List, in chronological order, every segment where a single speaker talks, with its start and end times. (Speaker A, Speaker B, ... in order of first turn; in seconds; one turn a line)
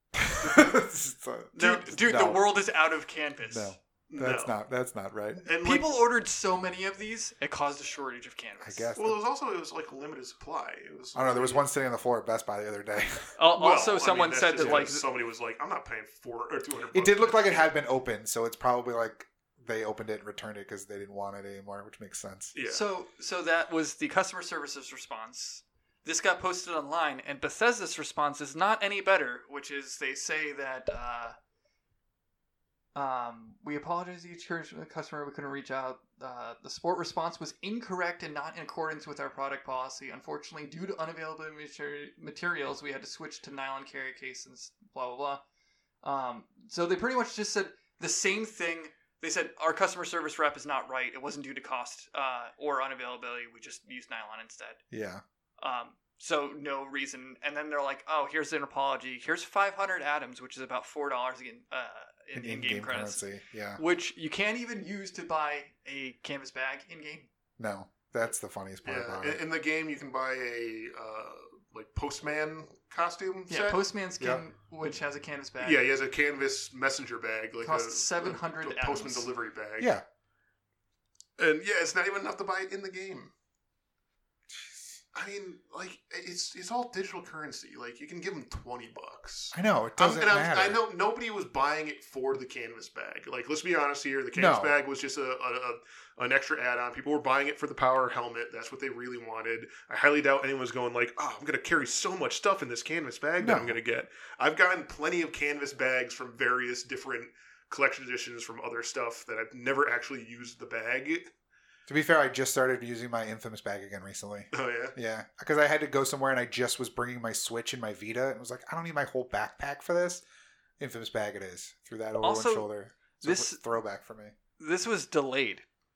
Speaker A: 0.1-2.4
Speaker B: 1.6-3.8
Speaker A: 3.5-5.5
Speaker C: 4.1-4.5
Speaker C: 5.5-6.0
Speaker B: 5.5-8.9
Speaker A: 8.6-9.2
Speaker C: 9.0-11.7
Speaker A: 11.2-13.3
Speaker B: 13.4-15.1
Speaker C: 13.6-17.6
Speaker A: 16.9-22.5
Speaker C: 22.5-22.8
Speaker B: 22.7-31.4
Speaker B: 33.0-45.4
Speaker B: 46.0-54.8
Speaker A: 54.9-55.2
Speaker B: 55.6-63.2
Speaker A: 62.4-63.8
Speaker B: 63.8-67.3
Speaker A: 67.6-69.4
Speaker C: 68.8-74.3
Speaker B: 73.5-75.9
Speaker C: 75.6-79.9
Speaker B: 77.6-79.3
Speaker A: 79.8-80.0
Speaker C: 81.4-83.3
Speaker A: 84.5-85.0
Speaker C: 85.1-111.3
Speaker A: 89.5-90.8
Speaker A: 94.3-94.8
Speaker A: 103.4-103.8
Speaker A: 111.9-120.2
Speaker C: 114.5-115.0
Speaker A: 120.8-124.3
Speaker B: 122.2-122.7
Speaker B: 123.2-123.6
Speaker B: 124.6-125.7